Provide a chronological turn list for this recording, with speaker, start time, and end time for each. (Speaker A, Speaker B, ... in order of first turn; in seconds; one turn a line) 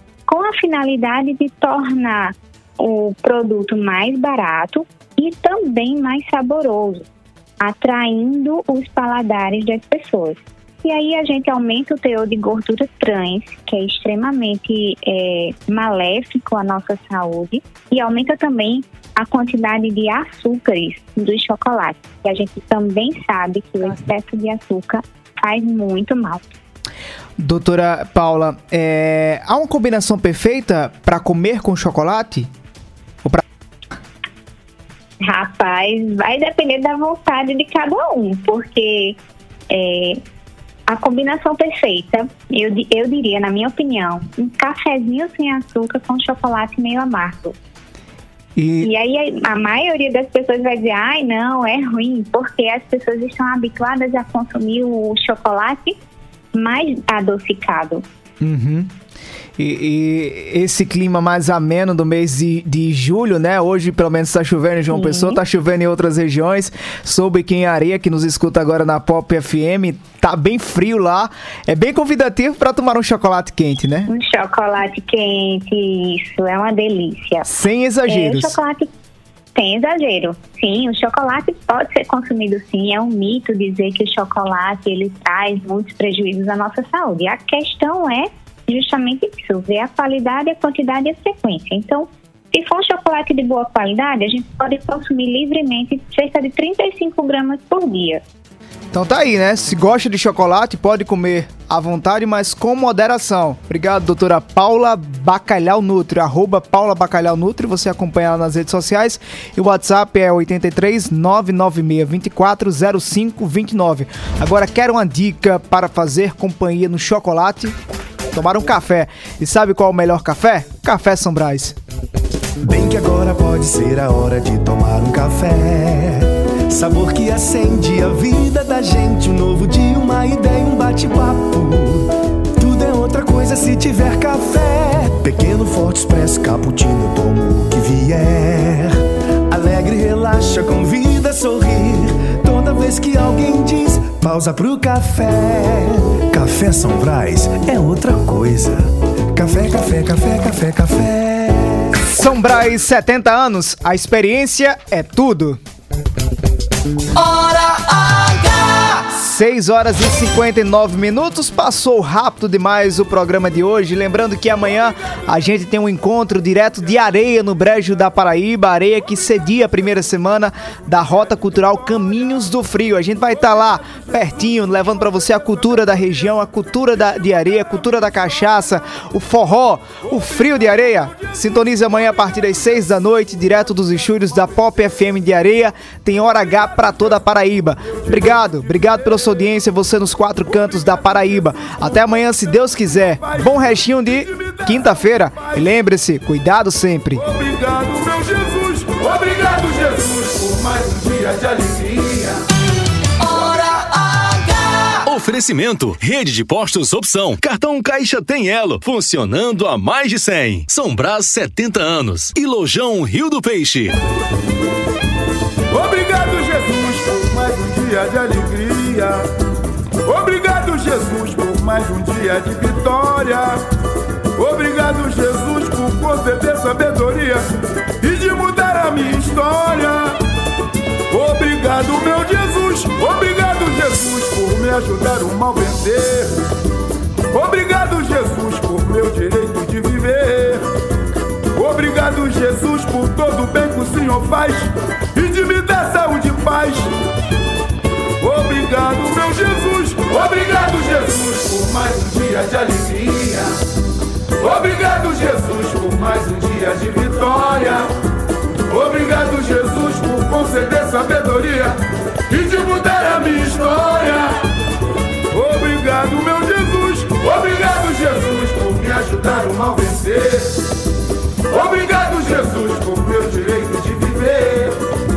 Speaker A: 0.3-7.0
Speaker A: 7.6-26.4
Speaker B: 27.4-32.5
Speaker A: 35.2-39.2
Speaker A: 39.7-40.2
Speaker A: 40.9-47.5
Speaker B: 48.6-48.9
Speaker A: 48.8-56.0
Speaker A: 56.5-58.0
Speaker B: 58.4-58.9
Speaker B: 59.6-74.1
Speaker A: 64.9-65.4
Speaker A: 74.1-77.5
Speaker B: 77.5-78.5
Speaker A: 78.1-78.9
Speaker A: 79.5-98.2
Speaker B: 98.9-117.8
Speaker B: 118.3-121.8
Speaker C: 122.6-152.0
Speaker B: 152.1-155.6
Speaker D: 157.1-159.1
Speaker B: 159.2-197.2
Speaker E: 193.2-195.5
Speaker E: 197.2-202.4
Speaker D: 203.2-205.1
Speaker F: 205.1-213.9
Speaker E: 215.7-219.2
Speaker E: 220.1-223.6
Speaker E: 224.4-227.5
Speaker E: 228.0-230.2
Speaker E: 231.1-236.4
Speaker E: 237.3-240.7
Speaker E: 241.6-246.9
Speaker E: 248.2-253.5
Speaker E: 254.4-257.9
Speaker E: 258.7-264.4
Speaker E: 265.3-270.6
Speaker E: 271.5-274.8